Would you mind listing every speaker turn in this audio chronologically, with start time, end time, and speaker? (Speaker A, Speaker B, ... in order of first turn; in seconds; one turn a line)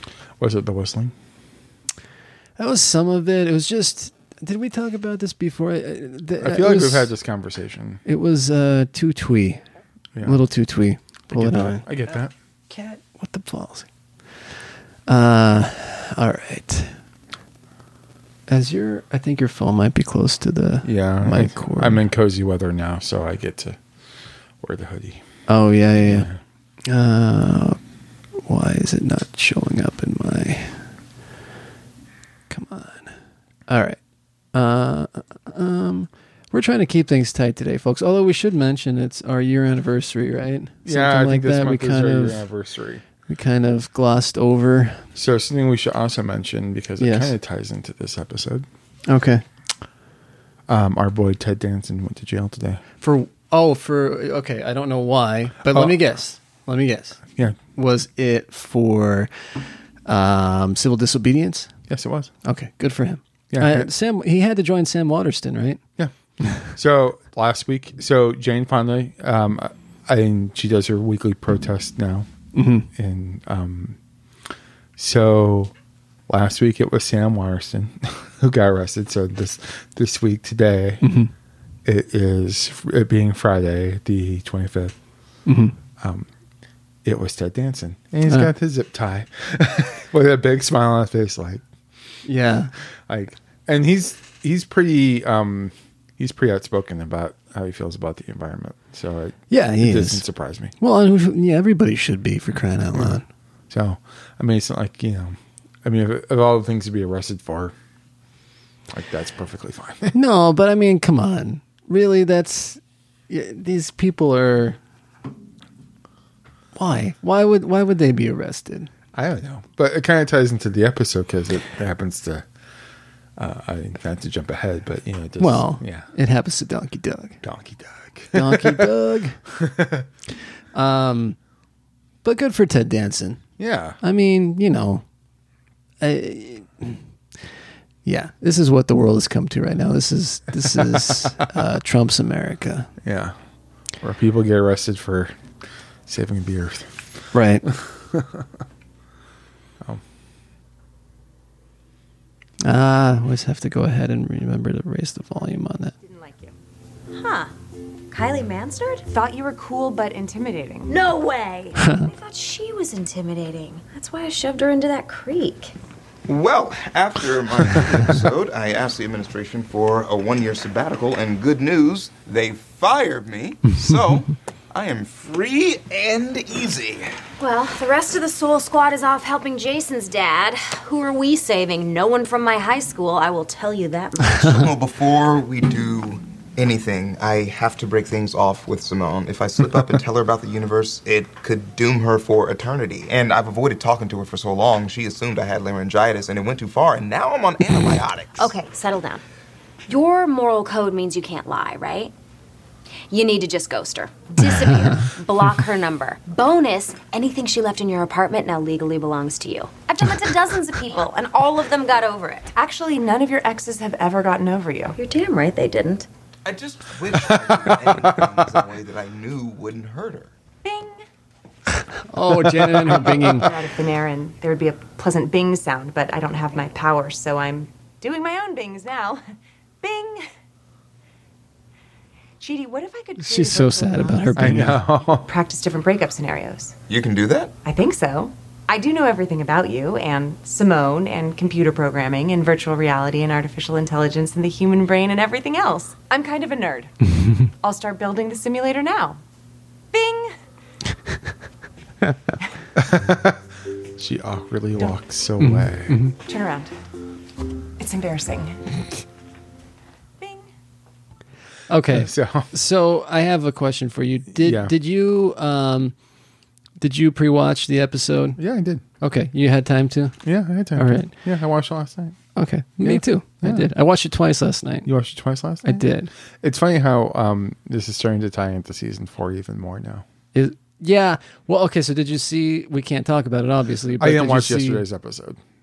Speaker A: 0.4-1.1
Speaker B: 2.6-7.1
Speaker A: 6.4-8.0
Speaker B: 8.1-9.6
Speaker B: 10.2-11.8
Speaker A: 11.3-12.3
Speaker B: 12.7-13.9
Speaker B: 15.1-16.9
Speaker B: 18.5-22.0
Speaker A: 20.8-23.8
Speaker A: 24.6-25.2
Speaker B: 25.5-26.3
Speaker A: 26.0-26.4
Speaker B: 26.9-27.8
Speaker B: 28.4-30.8
Speaker B: 32.5-33.1
Speaker B: 33.7-34.0
Speaker B: 34.5-42.4
Speaker A: 40.9-43.0
Speaker B: 43.3-45.0
Speaker A: 45.2-48.7
Speaker B: 47.0-47.3
Speaker B: 49.1-49.4
Speaker A: 50.7-52.8
Speaker B: 53.0-57.2
Speaker A: 55.6-56.0
Speaker B: 57.8-59.3
Speaker B: 60.0-61.7
Speaker A: 61.9-62.3
Speaker B: 62.5-65.8
Speaker A: 63.5-63.9
Speaker A: 66.0-72.3
Speaker B: 72.5-72.9
Speaker A: 72.9-74.0
Speaker A: 75.0-75.7
Speaker A: 76.3-81.0
Speaker B: 81.0-81.3
Speaker A: 81.8-84.9
Speaker B: 85.5-85.8
Speaker A: 86.0-86.3
Speaker A: 87.0-91.6
Speaker B: 92.2-92.7
Speaker A: 93.1-100.7
Speaker B: 99.5-100.2
Speaker B: 100.8-103.3
Speaker A: 102.9-107.7
Speaker A: 108.9-110.2
Speaker B: 110.1-114.8
Speaker B: 116.8-118.9
Speaker A: 119.1-122.5
Speaker A: 123.4-126.1
Speaker B: 125.4-127.4
Speaker A: 127.4-128.9
Speaker B: 128.3-129.4
Speaker A: 129.5-130.1
Speaker B: 130.7-131.4
Speaker B: 132.2-133.4
Speaker A: 133.6-134.0
Speaker B: 134.0-135.0
Speaker B: 136.0-137.0
Speaker B: 138.1-142.9
Speaker A: 140.7-141.3
Speaker A: 143.0-143.3
Speaker A: 144.0-145.3
Speaker A: 146.1-147.0
Speaker B: 147.3-147.7
Speaker A: 147.7-148.5
Speaker B: 152.6-155.9
Speaker C: 156.0-156.6
Speaker D: 157.1-157.5
Speaker D: 158.1-159.1
Speaker C: 159.1-160.9
Speaker D: 160.9-165.7
Speaker B: 161.8-162.1
Speaker E: 166.3-177.1
Speaker D: 177.4-184.6
Speaker E: 184.4-198.5
Speaker D: 198.4-199.2
Speaker D: 199.9-202.1
Speaker D: 203.1-212.5
Speaker C: 212.5-215.0
Speaker D: 214.9-216.1
Speaker E: 216.4-220.3
Speaker A: 217.2-218.2
Speaker C: 220.6-221.0
Speaker B: 222.1-223.5
Speaker A: 222.7-223.3
Speaker C: 222.9-229.2
Speaker C: 229.8-230.2
Speaker C: 232.4-236.8
Speaker B: 233.2-234.8
Speaker A: 234.4-235.3
Speaker E: 236.9-237.6
Speaker C: 237.7-246.9
Speaker C: 247.6-249.2
Speaker C: 249.9-250.3
Speaker A: 252.8-253.4
Speaker A: 254.0-256.0
Speaker B: 255.4-256.1
Speaker C: 256.3-256.7
Speaker C: 257.8-258.8
Speaker C: 260.2-260.5
Speaker B: 261.7-265.9
Speaker A: 261.9-262.5
Speaker A: 264.4-264.7
Speaker B: 266.8-268.4
Speaker A: 268.4-268.8
Speaker B: 269.0-270.2
Speaker A: 270.2-272.2
Speaker B: 270.8-271.1
Speaker B: 272.4-274.9
Speaker A: 272.8-273.7
Speaker A: 274.9-275.9
Speaker B: 275.6-276.1
Speaker A: 276.4-280.1
Speaker B: 280.3-284.9
Speaker A: 284.0-285.4